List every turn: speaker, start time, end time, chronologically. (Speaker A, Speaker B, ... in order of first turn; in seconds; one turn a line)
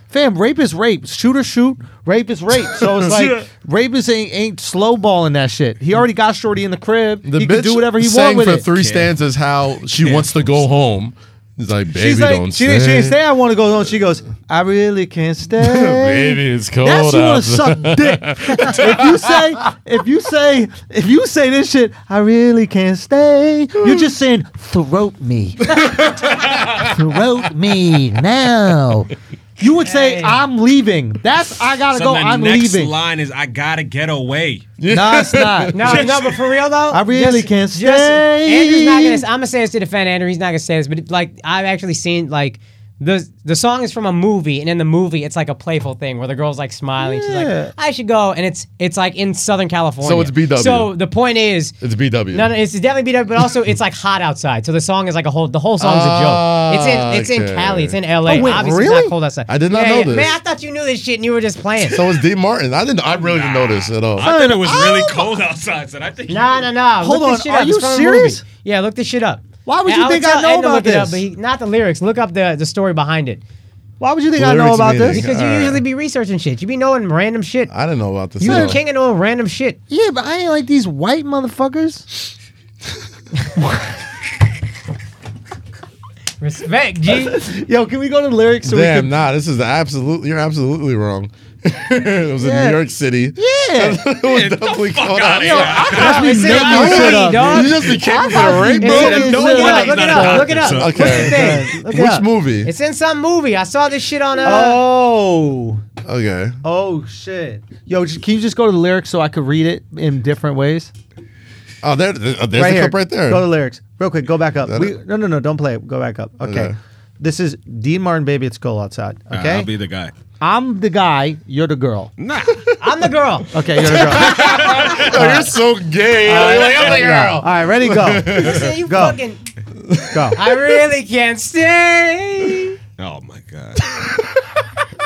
Speaker A: 0.1-8.7
Speaker B: 7.2-13.2
Speaker C: 8.6-9.1
Speaker C: 9.9-10.5
Speaker A: 11.9-32.9
Speaker B: 15.6-19.4
Speaker B: 25.7-26.9
Speaker D: 29.8-30.4
Speaker C: 31.9-34.7
Speaker B: 34.8-36.1
Speaker A: 34.9-36.1
Speaker D: 35.7-51.8
Speaker C: 35.8-36.5
Speaker A: 36.9-39.2
Speaker A: 47.0-47.7
Speaker B: 50.0-50.9
Speaker B: 51.8-52.5
Speaker D: 52.3-62.2
Speaker B: 55.8-60.4
Speaker A: 58.3-59.1
Speaker B: 61.8-64.3
Speaker C: 63.1-66.7
Speaker A: 64.2-65.3
Speaker D: 66.3-73.4
Speaker A: 67.0-68.4
Speaker A: 69.7-71.2
Speaker A: 74.0-75.2
Speaker B: 74.3-75.8
Speaker D: 75.0-77.7
Speaker B: 77.7-78.8
Speaker D: 78.4-79.8
Speaker A: 78.4-78.8
Speaker A: 79.9-82.2
Speaker A: 83.5-83.9
Speaker D: 86.4-87.4
Speaker A: 87.2-89.1
Speaker B: 88.6-102.7
Speaker A: 92.4-92.8
Speaker A: 93.3-94.0
Speaker C: 94.1-97.2
Speaker A: 95.4-102.3
Speaker D: 95.8-98.0
Speaker D: 98.8-101.8
Speaker C: 98.8-101.5
Speaker D: 102.6-104.8
Speaker A: 104.4-105.8
Speaker B: 106.0-106.6
Speaker A: 106.6-110.9
Speaker B: 111.8-113.5
Speaker A: 112.5-119.7
Speaker B: 114.7-114.9
Speaker B: 116.4-116.8
Speaker C: 119.3-120.1
Speaker A: 120.4-122.1
Speaker C: 122.2-122.7
Speaker D: 122.8-124.8
Speaker A: 123.5-125.5
Speaker B: 123.8-128.8
Speaker C: 124.2-125.1
Speaker A: 126.2-129.2
Speaker D: 128.3-129.4
Speaker B: 129.9-130.6
Speaker A: 130.1-130.4
Speaker D: 130.3-132.8
Speaker C: 133.0-133.8
Speaker B: 133.9-134.2